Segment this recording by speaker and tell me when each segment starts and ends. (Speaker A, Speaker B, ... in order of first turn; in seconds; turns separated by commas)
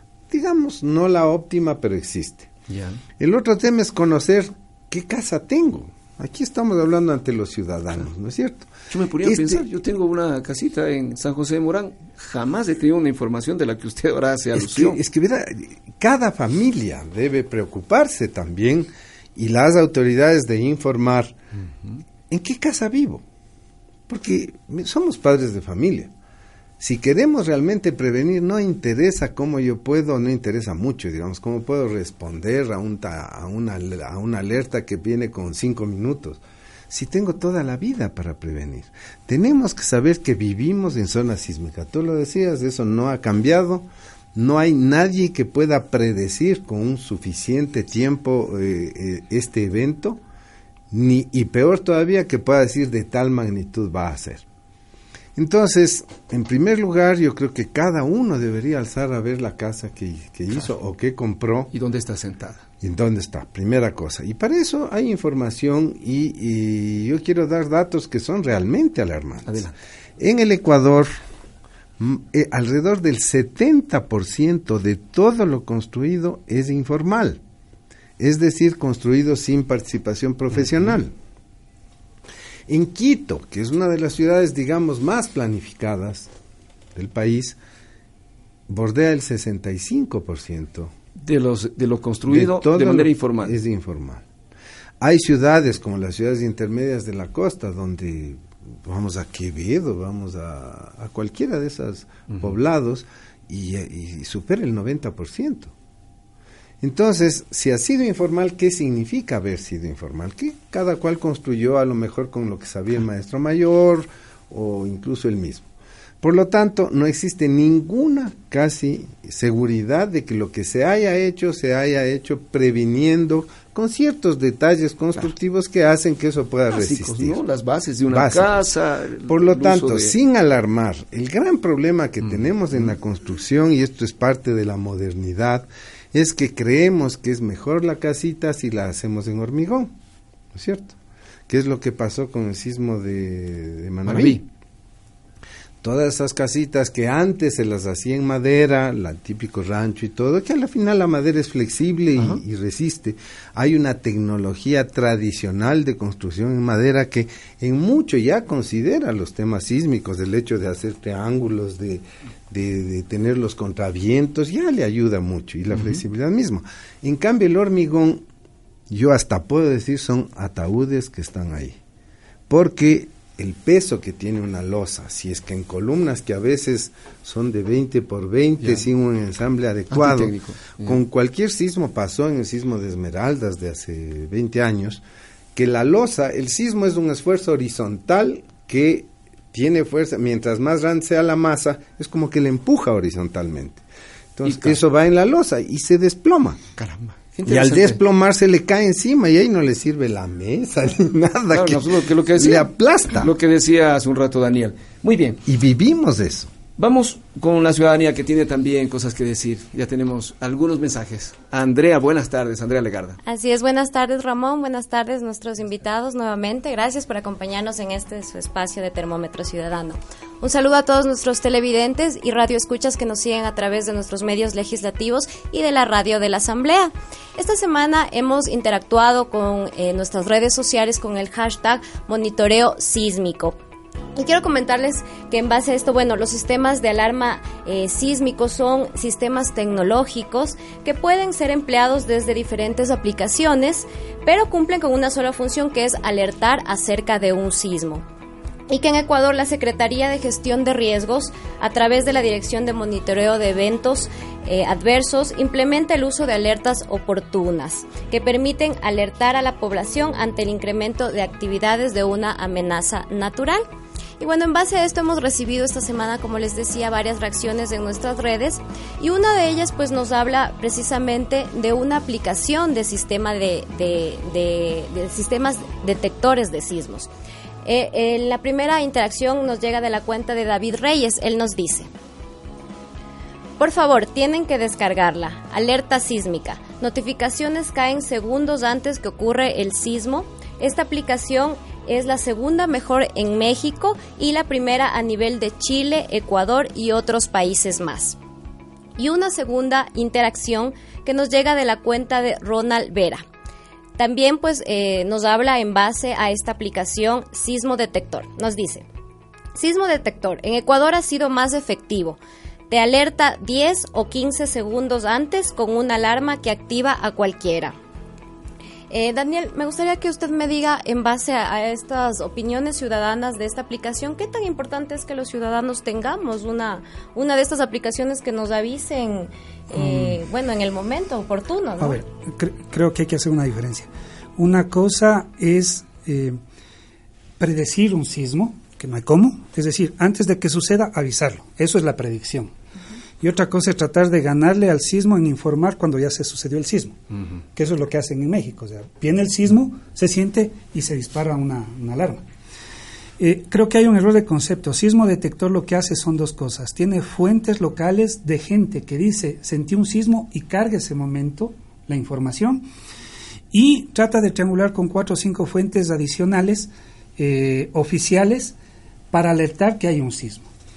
Speaker A: 0.3-2.5, Speaker B: 2.7-3.0, Speaker A: 3.2-8.7, Speaker B: 8.9-15.0, Speaker A: 9.2-9.6, Speaker A: 14.5-21.4, Speaker A: 22.3-23.2, Speaker A: 24.1-26.1, Speaker A: 26.8-50.2, Speaker A: 50.9-54.4, Speaker A: 55.4-61.7, Speaker B: 61.7-62.6, Speaker A: 62.8-71.1, Speaker B: 69.5-69.7, Speaker A: 72.0-77.4, Speaker A: 78.2-81.1, Speaker A: 82.7-86.3, Speaker A: 86.9-87.6, Speaker A: 88.7-90.9, Speaker B: 91.2-93.6, Speaker A: 92.3-94.2, Speaker A: 95.0-105.7, Speaker A: 106.8-115.7, Speaker A: 116.2-127.4, Speaker B: 126.7-130.2, Speaker A: 128.1-128.7, Speaker A: 129.3-139.9, Speaker B: 132.2-132.9, Speaker A: 140.5-140.9, Speaker A: 141.5-144.4, Speaker B: 144.1-144.4, Speaker A: 145.8-168.2, Speaker B: 165.7-166.0, Speaker A: 168.9-171.8, Speaker A: 172.5-185.0, Speaker B: 179.9-181.0, Speaker A: 185.5-193.8, Speaker A: 194.4-196.6, Speaker B: 194.4-194.8, Speaker B: 196.8-198.0, Speaker A: 197.4-203.3, Speaker B: 201.5-205.4, Speaker A: 205.4-206.5, Speaker B: 206.8-213.2, Speaker C: 213.2-233.6, Speaker C: 234.2-248.0, Speaker C: 248.7-263.6, Speaker C: 264.2-277.1, Speaker C: 277.6-281.9, Speaker C: 283.6-298.1, Speaker C: 299.0-303.2, Speaker C: 304.0-308.9, Speaker C: 309.5-312.2, Speaker C: 312.7-317.8, Speaker C: 318.9-332.0, Speaker D: 329.7-330.1, Speaker D: 331.8-336.4, Speaker D: 337.4-342.5, Speaker D: 343.2-347.0, Speaker D: 347.5-352.2, Speaker D: 353.2-362.6, Speaker D: 363.5-368.5, Speaker D: 369.1-370.5